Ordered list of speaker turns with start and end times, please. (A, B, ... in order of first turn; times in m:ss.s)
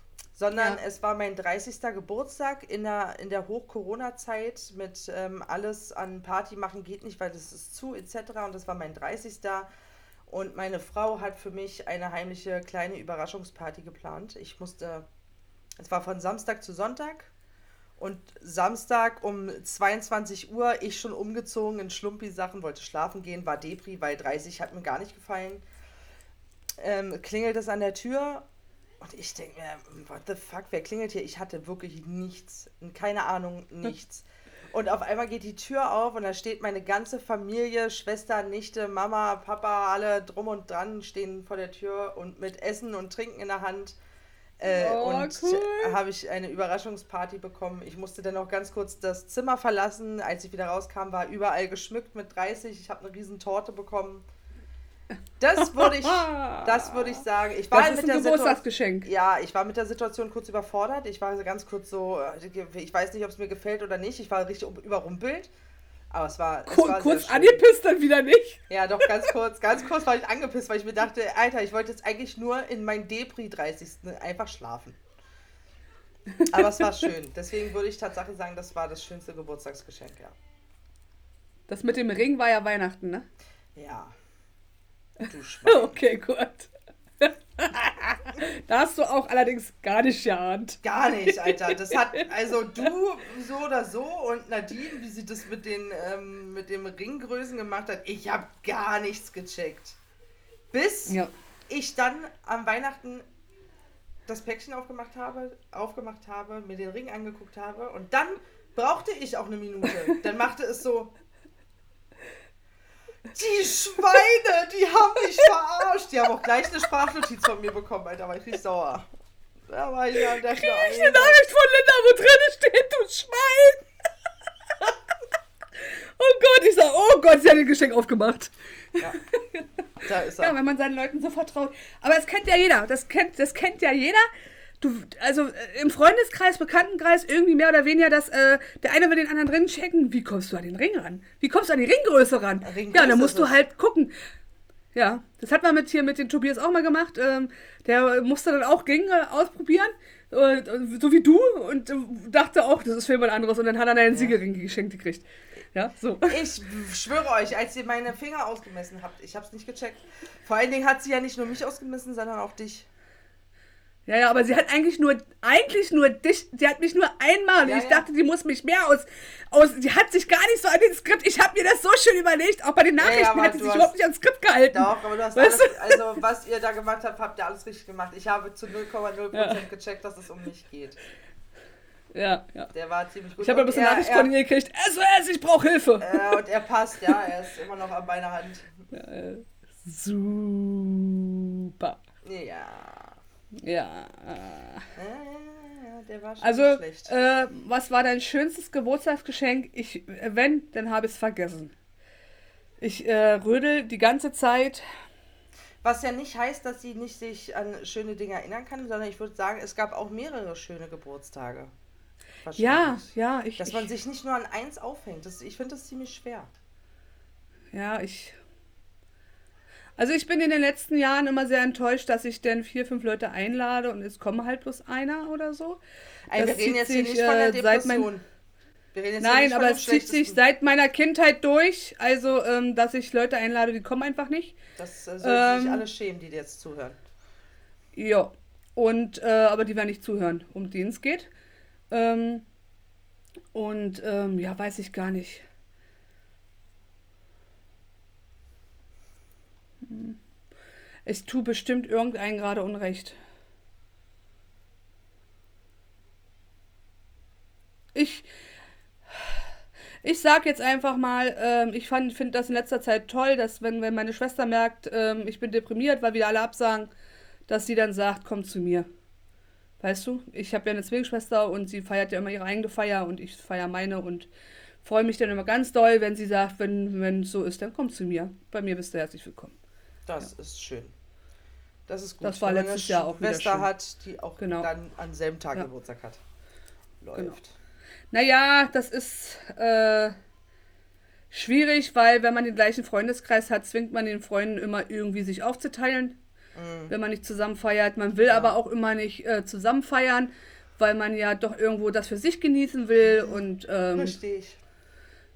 0:00.3-0:09.7 A
0:00.5-0:00.8 B
0:10.3-0:15.0 A
0:15.8-0:17.3 A
0:18.0-0:25.6 A
0:26.8-0:28.4 A
0:29.0-0:44.0 A
0:44.6-0:54.2 A
0:44.6-0:46.0 B
0:55.4-1:05.5 A
0:55.6-0:59.1 B
1:06.1-1:07.6 A
1:06.7-1:08.6 B
1:08.7-1:15.0 A
1:16.4-1:17.0 B
1:16.5-1:20.4 A
1:21.7-1:23.3 B
1:23.7-1:24.1 A
1:25.2-1:26.0 A
1:25.7-1:32.2 B
1:30.8-1:40.0 A
1:40.7-1:41.2 A
1:41.7-1:43.2 A
1:44.2-1:51.1 A
1:53.3-1:59.1 A
1:59.7-2:01.4 A
2:00.5-2:03.9 B
2:05.8-2:09.7 B
2:10.0-2:10.6 A
2:10.4-2:14.3 B
2:14.8-2:24.1 B
2:22.6-2:23.6 A
2:24.9-2:36.4 B
2:34.1-2:34.4 A
2:36.2-2:42.9 A
2:44.1-2:56.0 B
2:47.6-2:48.0 A
2:53.0-2:53.9 A
2:54.7-3:01.0 A
2:59.3-2:59.6 B
3:02.1-3:02.7 B
3:02.7-3:04.3 A
3:03.4-3:06.4 B
3:06.0-3:08.7 A
3:08.9-3:12.0 B
3:12.2-3:13.2 A
3:13.6-3:14.8 B
3:15.0-3:17.2 A
3:16.4-3:21.7 B
3:22.8-3:24.8 B
3:25.8-3:31.7 A
3:32.4-3:36.5 A
3:32.6-3:33.9 B
3:37.7-3:38.4 B
3:40.0-3:45.8 B
3:46.3-3:48.2 A
3:46.3-3:48.1 B
3:48.9-3:50.4 A
3:49.2-3:54.6 B
3:54.8-3:57.0 A
3:55.2-3:55.8 B
3:57.9-4:01.3 B
4:01.9-4:02.4 B
4:03.5-4:05.4 B
4:09.8-4:10.2 B
4:11.0-4:13.2 B
4:17.9-4:18.3 B
4:19.1-4:19.4 B
4:20.0-4:26.9 B
4:27.5-4:28.9 B
4:29.8-4:34.3 B
4:34.8-4:39.6 B
4:40.0-4:40.9 A
4:41.9-4:46.2 A
4:42.2-4:43.7 B
4:44.4-4:44.7 B
4:47.0-4:47.5 A
4:48.1-4:50.1 B
4:51.3-4:56.2 B
4:56.5-4:56.9 A
4:56.9-5:04.2 B
4:58.3-4:58.6 A
5:03.0-5:03.4 A
5:03.9-5:04.6 A